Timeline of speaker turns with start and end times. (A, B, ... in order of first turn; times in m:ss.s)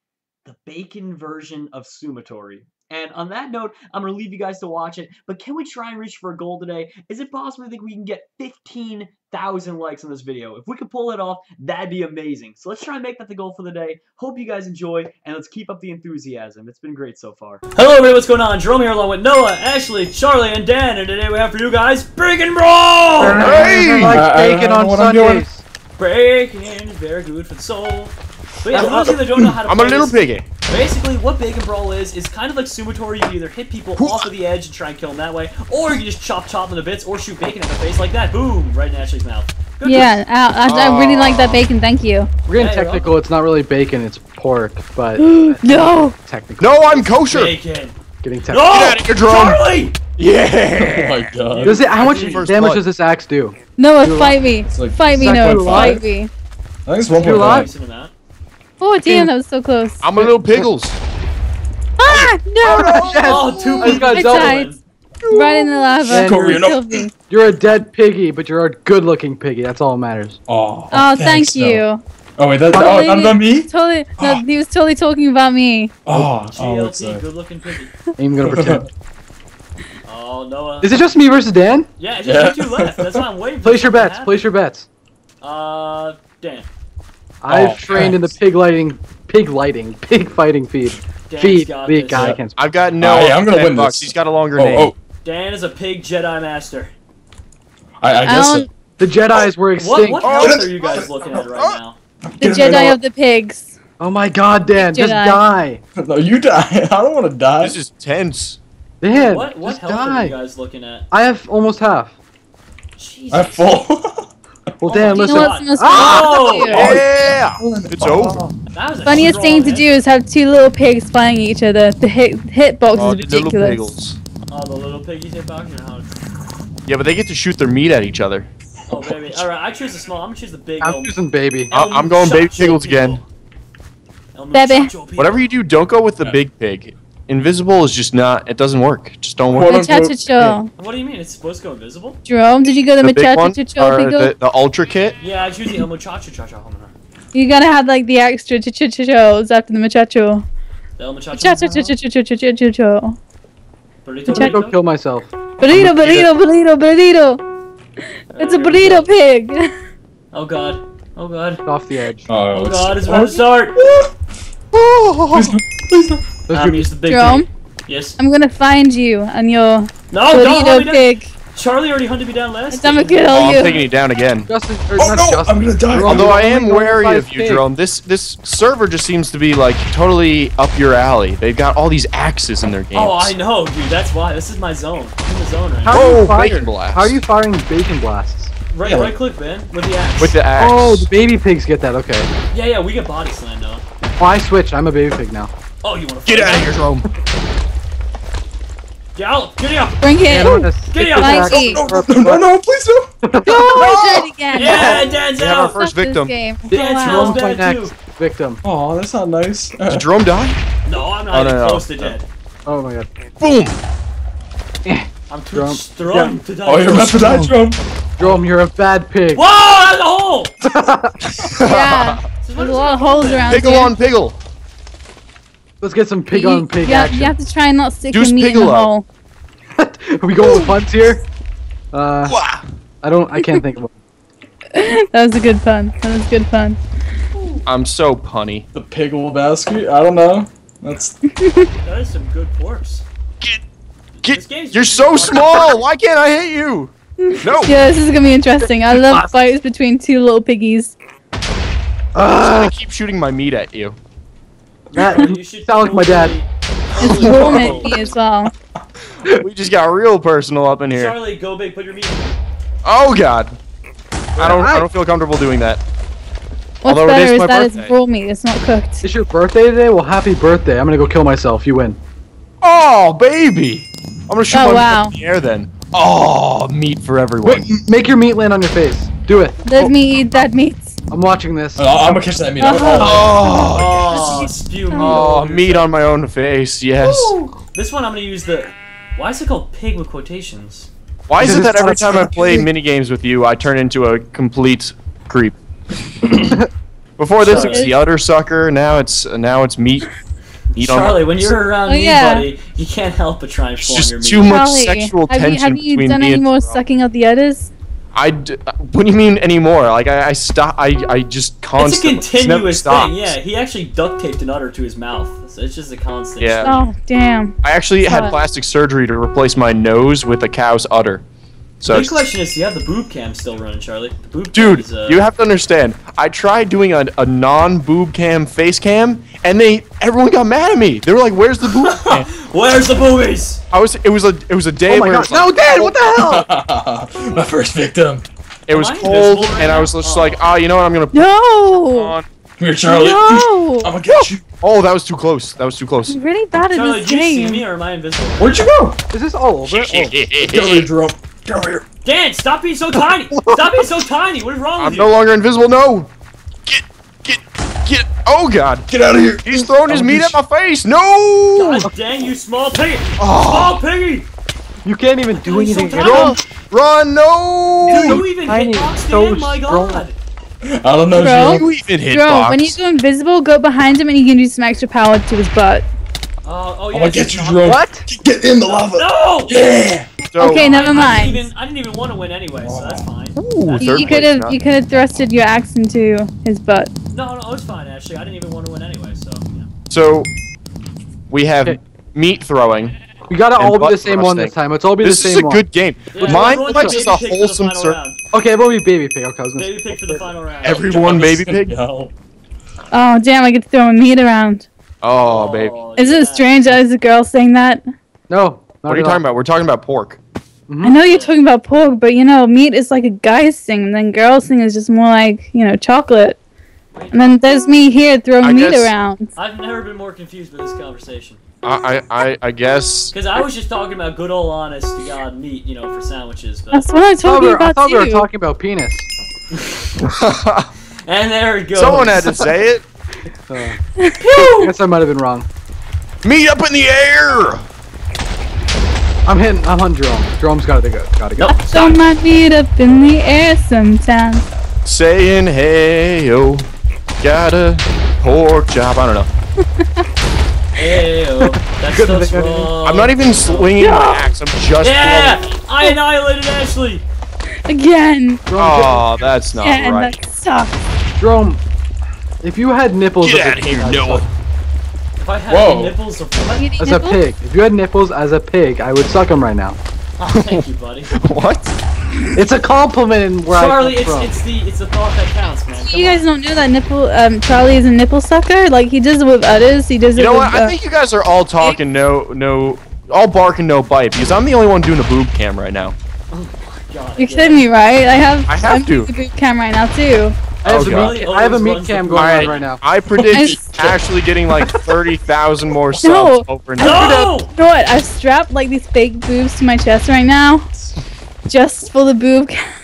0:00.4-0:23.7 A
0:23.2-0:25.6 B
0:23.2-0:24.3 C
0:24.0-0:25.4 D
0:26.0-0:40.2 A
0:28.7-0:29.1 B
0:29.6-0:30.5 C
0:34.0-0:34.2 C
0:39.8-0:42.3 E
0:40.6-0:41.6 C
0:42.5-0:47.4 B
0:42.5-0:43.1 A
0:45.2-0:46.1 E
0:46.6-0:47.6 C
0:47.3-0:48.0 A
0:48.2-0:48.7 B
0:48.5-0:50.0 A
0:48.6-0:49.6 C
0:50.2-0:51.2 C
0:50.7-0:51.9 D
0:51.5-0:52.4 A
0:51.6-0:54.4 B
0:51.8-0:52.8 C
0:53.8-0:56.3 E
0:54.6-0:56.0 D
0:55.2-0:56.0 B
0:56.8-0:57.7 D
0:57.1-0:57.7 B
0:57.3-0:58.1 A
0:58.8-1:00.3 E
0:59.0-0:59.3 B
1:00.0-1:01.0 C
1:00.2-1:00.7 B
1:02.0-1:04.7 E
1:02.1-1:03.0 C
1:02.7-1:04.6 B
1:02.7-1:03.2 D
1:03.2-1:04.8 A
1:05.2-1:07.1 D
1:05.3-1:07.1 E
1:06.1-1:06.6 B
1:07.3-1:10.4 B
1:10.5-1:11.8 D
1:10.9-1:12.0 E
1:12.4-1:14.4 D
1:12.8-1:15.9 E
1:16.0-1:17.2 D
1:16.5-1:17.9 A
1:18.2-1:18.8 B
1:18.4-1:18.9 D
1:20.0-1:21.2 A
1:20.8-1:21.9 B
1:22.0-1:24.5 A
1:22.2-1:23.2 D
1:23.6-1:24.9 B
1:25.4-1:26.7 A
1:27.4-1:32.6 B
1:27.5-1:28.4 D
1:27.6-1:27.9 C
1:31.3-1:32.4 A
1:32.1-1:32.4 D
1:32.6-1:34.9 C
1:33.0-1:34.9 D
1:35.2-1:36.9 A
1:38.0-1:38.7 D
1:38.2-1:38.7 E
1:39.0-1:40.3 B
1:39.6-1:42.0 A
1:40.2-1:40.7 C
1:40.3-1:41.4 D
1:41.5-1:41.8 C
1:42.2-1:43.0 D
1:42.4-1:43.7 E
1:44.0-1:45.8 B
1:44.7-1:45.4 E
1:46.0-1:47.8 D
1:47.6-1:48.6 C
1:49.0-1:50.4 B
1:49.1-1:51.1 A
1:51.1-1:52.2 B
1:53.0-1:53.7 A
1:53.3-1:54.3 D
1:54.8-1:56.6 B
1:54.8-1:57.0 A
1:55.1-1:56.9 E
1:55.8-1:58.4 C
1:56.8-1:58.6 D
1:58.6-2:00.0 A
1:59.0-2:04.0 E
2:02.9-2:04.2 C
2:04.5-2:06.1 A
2:06.8-2:08.5 C
2:08.9-2:11.2 A
2:10.8-2:11.7 B
2:11.7-2:13.2 A
2:11.7-2:13.2 C
2:14.3-2:15.5 A
2:14.5-2:15.0 E
2:15.1-2:19.7 C
2:19.4-2:20.6 D
2:19.6-2:20.7 E
2:20.8-2:22.2 A
2:22.2-2:24.3 E
2:23.0-2:25.2 C
2:25.2-2:26.9 A
2:27.3-2:30.4 E
2:31.0-2:32.0 A
2:31.3-2:33.2 E
2:34.0-2:34.8 A
2:34.3-2:34.6 E
2:34.3-2:35.3 B
2:35.6-2:37.4 E
2:38.3-2:39.7 E
2:38.3-2:39.1 A
2:40.3-2:41.6 A
2:41.6-2:42.3 B
2:42.3-2:44.1 D
2:42.5-2:43.8 A
2:44.7-2:45.5 C
2:45.3-2:46.2 D
2:46.5-2:46.9 B
2:46.5-2:48.2 A
2:47.0-2:47.5 E
2:48.2-2:51.3 E
2:50.1-2:53.9 A
2:52.7-2:53.8 E
2:53.3-2:54.5 C
2:54.4-2:57.6 B
2:55.0-2:56.4 D
2:56.0-3:03.3 C
3:02.9-3:06.1 A
3:05.8-3:08.5 B
3:05.9-3:07.2 C
3:08.7-3:10.4 A
3:08.8-3:09.1 D
3:10.2-3:11.1 C
3:10.6-3:12.3 B
3:12.5-3:13.8 A
3:14.2-3:15.5 B
3:15.8-3:16.8 A
3:16.3-3:17.1 C
3:19.1-3:21.6 A
3:20.0-3:21.8 E
3:20.3-3:22.5 B
3:21.4-3:23.1 D
3:23.2-3:23.9 B
3:23.4-3:27.4 E
3:23.6-3:24.2 C
3:24.5-3:25.9 A
3:25.3-3:26.3 C
3:26.7-3:28.6 B
3:26.7-3:27.9 A
3:28.6-3:30.1 D
3:29.9-3:30.6 C
3:30.8-3:32.2 A
3:31.3-3:32.1 C
3:32.6-3:33.1 B
3:33.4-3:33.8 C
3:34.8-3:36.4 B
3:35.3-3:37.2 A
3:36.6-3:38.4 D
3:37.1-3:37.5 C
3:38.2-3:39.4 B
3:39.3-3:40.5 A
3:40.7-3:41.1 B
3:41.6-3:42.2 C
3:41.6-3:44.0 E
3:42.4-3:43.7 A
3:43.5-3:44.4 C
3:45.8-3:47.4 B
3:46.3-3:49.0 E
3:48.1-3:48.9 C
3:49.8-3:51.2 B
3:51.9-3:52.4 B
3:52.2-3:52.6 C
3:53.0-3:53.9 B
3:54.7-3:56.8 E
3:57.3-3:57.7 A
3:57.6-3:58.6 C
3:58.7-4:01.2 D
4:01.3-4:01.7 E
4:01.8-4:03.0 A
4:04.1-4:05.8 A
4:04.2-4:07.8 C
4:07.2-4:10.9 E
4:12.2-4:12.7 B
4:12.4-4:14.0 C
4:14.9-4:18.2 A
4:14.9-4:16.4 B
4:17.0-4:18.5 E
4:17.0-4:17.9 C
4:19.3-4:21.2 C
4:20.9-4:22.4 A
4:22.8-4:23.6 C
4:24.4-4:24.9 B
4:24.4-4:25.8 C
4:26.8-4:29.0 E
4:26.8-4:27.9 C
4:29.0-4:32.0 B
4:32.6-4:37.7 C
4:34.5-4:35.1 E
4:37.4-4:39.8 B
4:39.6-4:40.9 E
4:41.1-4:41.8 B
4:41.8-4:43.5 D
4:42.6-4:45.2 E
4:42.8-4:44.0 C
4:43.0-4:45.9 A
4:45.0-4:47.3 C
4:47.7-4:50.9 A
4:51.3-4:55.6 C
4:51.4-4:52.7 B
4:57.2-5:00.1 C
4:57.4-4:57.9 A
4:57.4-4:58.0 E
5:00.7-5:04.7 A
5:00.8-5:01.5 C
5:01.9-5:02.5 E
5:03.8-5:06.8 C
5:04.4-5:07.7 E
5:08.1-5:13.4 C
5:11.8-5:16.8 A
5:16.4-5:16.8 C
5:16.6-5:18.3 E
5:17.6-5:21.2 C
5:21.8-5:22.2 C
5:21.8-5:25.2 A
5:24.5-5:32.3 C
5:32.1-5:33.6 A
5:33.7-5:35.6 C
5:34.8-5:36.4 B
5:35.6-5:38.2 D
5:38.7-5:42.2 C
5:38.7-5:40.4 A
5:41.1-5:42.2 E
5:42.6-5:44.5 D
5:42.8-5:43.9 E
5:44.0-5:46.2 C
5:46.1-5:47.6 E
5:46.6-5:48.7 A
5:48.4-5:49.0 D
5:49.1-5:50.2 B
5:49.6-5:50.9 C
5:50.3-5:51.8 D
5:52.0-5:55.1 A
5:54.8-5:56.1 C
5:56.6-5:58.9 C
5:58.9-6:00.4 D
5:59.4-6:01.9 C
6:01.5-6:04.3 A
6:03.2-6:03.8 C
6:04.8-6:06.3 B
6:05.3-6:06.4 A
6:05.9-6:08.2 C
6:06.0-6:06.4 E
6:07.8-6:10.0 B
6:07.9-6:10.2 A
6:10.7-6:11.7 D
6:11.1-6:15.8 E
6:11.5-6:12.8 C
6:16.4-6:17.8 A
6:16.9-6:20.3 D
6:17.6-6:18.1 B
6:18.6-6:19.6 A
6:20.3-6:20.7 C
6:20.3-6:21.4 E
6:20.4-6:24.2 A
6:22.6-6:23.1 D
6:23.4-6:24.6 C
6:23.8-6:26.9 E
6:27.1-6:29.7 A
6:29.9-6:30.3 C
6:31.3-6:33.0 C
6:33.3-6:35.6 B
6:33.5-6:38.0 C
6:36.1-6:38.2 A
6:36.2-6:37.0 B
6:38.3-6:40.3 B
6:39.6-6:41.4 A
6:40.6-6:41.7 C
6:40.6-6:42.1 D
6:42.9-6:44.7 E
6:45.0-6:45.8 C
6:45.2-6:46.8 A
6:45.9-6:47.8 E
6:48.3-6:49.2 B
6:48.8-6:50.2 C
6:50.7-6:51.0 B
6:50.8-6:56.4 E
6:51.0-6:51.4 A
6:56.9-6:57.3 A
6:57.1-6:59.3 E
6:58.4-6:58.9 C
6:59.4-7:01.4 A
7:01.6-7:03.1 C
7:03.1-7:07.0 A
7:06.7-7:08.3 E
7:07.2-7:09.1 B
7:09.5-7:09.9 A
7:10.0-7:10.7 C
7:11.0-7:12.3 A
7:11.7-7:12.8 C
7:13.5-7:13.8 B
7:14.2-7:14.7 A
7:14.4-7:15.5 B
7:16.2-7:17.6 C
7:19.3-7:21.8 B
7:21.4-7:22.0 A
7:21.5-7:24.4 E
7:24.8-7:26.7 C
7:27.2-7:29.3 C
7:30.8-7:33.8 A
7:31.8-7:32.8 B
7:32.8-7:35.5 C
7:33.8-7:34.3 E
7:34.8-7:37.0 A
7:37.6-7:38.4 E
7:38.5-7:39.4 B
7:38.6-7:40.1 C
7:39.5-7:40.8 E
7:41.2-7:41.6 B
7:42.4-7:44.3 B
7:43.2-7:44.3 C
7:45.2-7:46.7 A
7:45.5-7:46.0 D
7:46.6-7:47.2 E
7:46.8-7:49.8 B
7:50.2-7:51.1 A
7:50.3-7:51.8 C
7:52.3-7:54.4 B
7:53.5-7:56.3 A
7:55.7-8:00.8 E
8:00.1-8:05.9 C
8:06.3-8:07.7 A
8:07.2-8:10.4 E
8:08.5-8:09.1 C
8:10.6-8:12.8 B
8:10.6-8:11.2 C
8:10.7-8:12.7 A
8:12.1-8:17.3 C
8:13.1-8:15.0 D
8:13.3-8:13.7 E
8:15.9-8:20.7 E
8:16.8-8:17.5 A
8:21.5-8:22.6 E